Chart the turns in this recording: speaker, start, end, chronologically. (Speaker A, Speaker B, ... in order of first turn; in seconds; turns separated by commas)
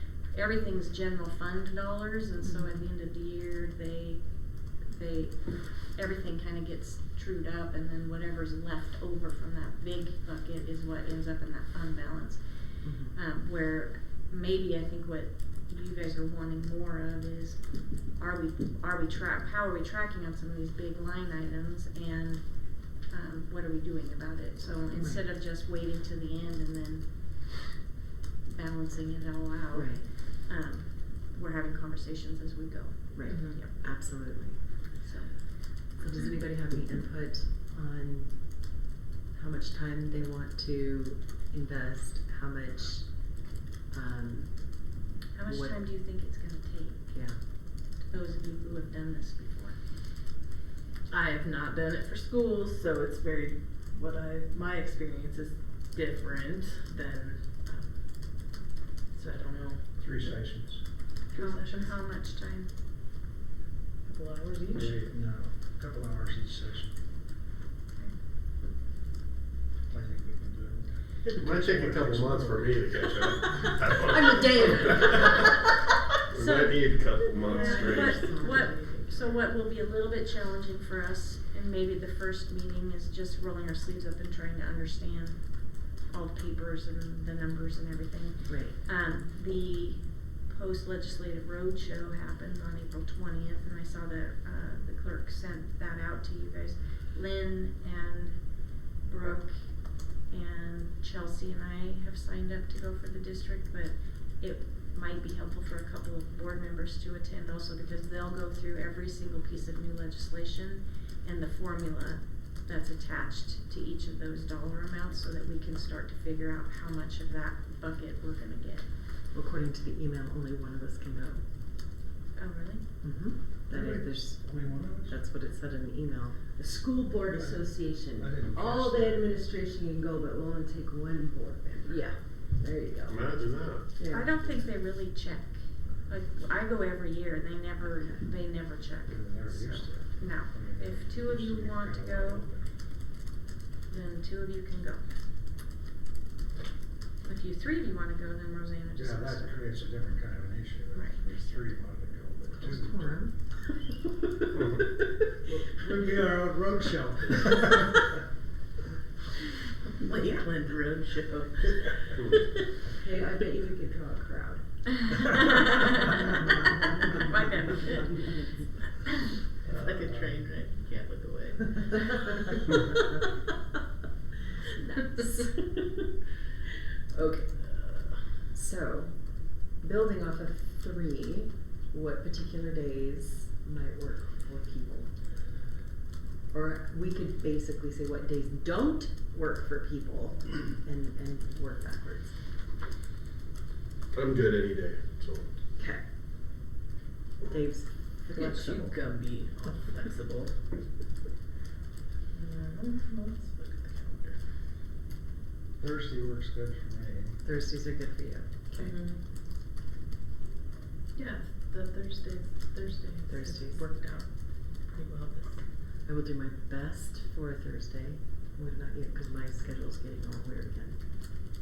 Speaker A: 0.3-27.7, Speaker B: 2.4-2.8, Speaker B: 12.8-13.2, Speaker B: 25.0-25.2, Speaker A: 28.4-33.9, Speaker B: 29.7-30.1, Speaker B: 33.1-34.7, Speaker C: 33.3-33.6, Speaker A: 35.0-35.8, Speaker B: 35.9-38.7, Speaker B: 39.3-44.9, Speaker A: 45.3-49.8, Speaker B: 45.4-45.8, Speaker B: 47.1-47.4, Speaker C: 51.1-60.3, Speaker D: 60.0-60.9, Speaker C: 60.9-62.0, Speaker A: 61.3-62.7, Speaker C: 64.0-65.1, Speaker D: 64.7-67.0, Speaker D: 69.9-72.7, Speaker E: 71.4-75.3, Speaker B: 74.0-75.5, Speaker E: 76.3-78.2, Speaker A: 76.4-118.9, Speaker B: 77.4-79.3, Speaker B: 88.5-88.8, Speaker B: 119.3-121.4, Speaker A: 122.4-122.9, Speaker B: 123.0-126.6, Speaker D: 123.7-125.2, Speaker F: 126.6-133.2, Speaker D: 127.3-129.3, Speaker B: 131.8-132.2, Speaker E: 133.1-134.4, Speaker B: 134.0-134.2, Speaker A: 134.1-142.5, Speaker D: 139.1-142.7, Speaker A: 143.9-145.0, Speaker A: 147.2-149.7, Speaker D: 148.9-153.2, Speaker A: 150.9-151.8, Speaker B: 152.6-153.4, Speaker D: 155.6-158.1, Speaker C: 160.0-162.5, Speaker F: 163.0-164.6, Speaker A: 165.2-166.1, Speaker A: 167.1-168.3, Speaker C: 169.6-172.9, Speaker D: 169.6-170.5, Speaker B: 174.7-175.9, Speaker B: 177.1-178.0, Speaker B: 178.5-185.2, Speaker B: 186.5-192.4, Speaker E: 194.1-195.5, Speaker B: 195.8-196.1, Speaker B: 197.5-199.0, Speaker C: 198.3-200.8, Speaker C: 202.3-204.4, Speaker D: 205.8-207.4, Speaker B: 207.4-209.0, Speaker C: 208.7-209.2, Speaker C: 211.2-215.7, Speaker B: 213.3-213.9, Speaker B: 216.1-221.1